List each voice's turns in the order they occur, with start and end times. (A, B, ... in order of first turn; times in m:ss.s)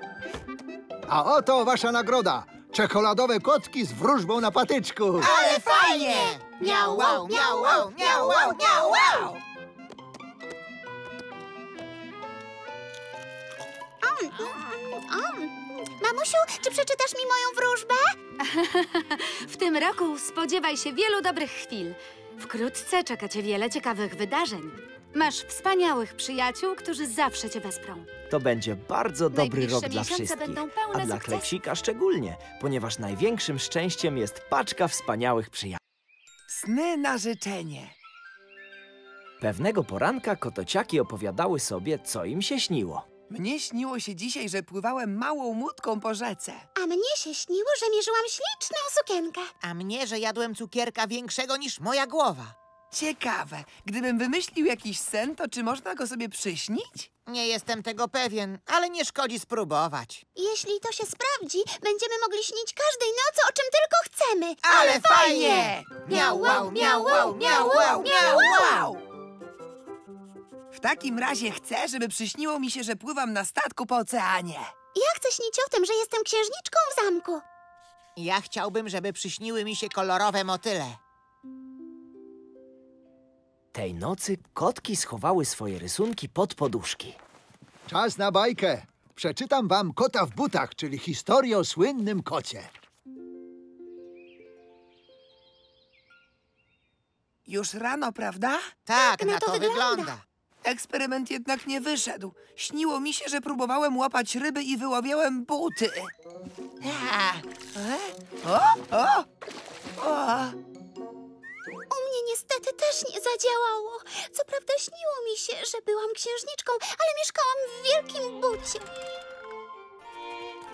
0:01.1-0:05.3 A
0:05.2-0:09.3 B
0:05.2-0:09.4 C
0:14.0-0:18.1 D
0:18.4-0:28.1 E
0:28.3-0:35.8 F
0:29.3-0:31.5 E
0:36.5-0:37.9 C
0:39.4-0:43.1 F
0:43.3-0:46.7 C
0:46.8-0:49.5 D
0:49.6-0:52.5 B
0:52.9-0:57.1 C
0:57.3-1:00.2 B
1:00.4-1:04.7 D
1:04.6-1:05.9 C
1:04.7-1:08.9 B
1:06.1-1:08.9 D
1:08.0-1:08.8 C
1:10.7-1:14.7 C
1:15.0-1:17.4 D
1:18.2-1:21.0 B
1:23.7-1:27.2 F
1:27.9-1:32.7 A
1:37.5-1:38.6 C
1:38.9-1:40.2 B
1:39.0-1:40.1 D
1:40.6-1:46.1 C
1:46.8-1:49.3 C
1:50.0-1:50.6 C
1:51.9-1:58.8 D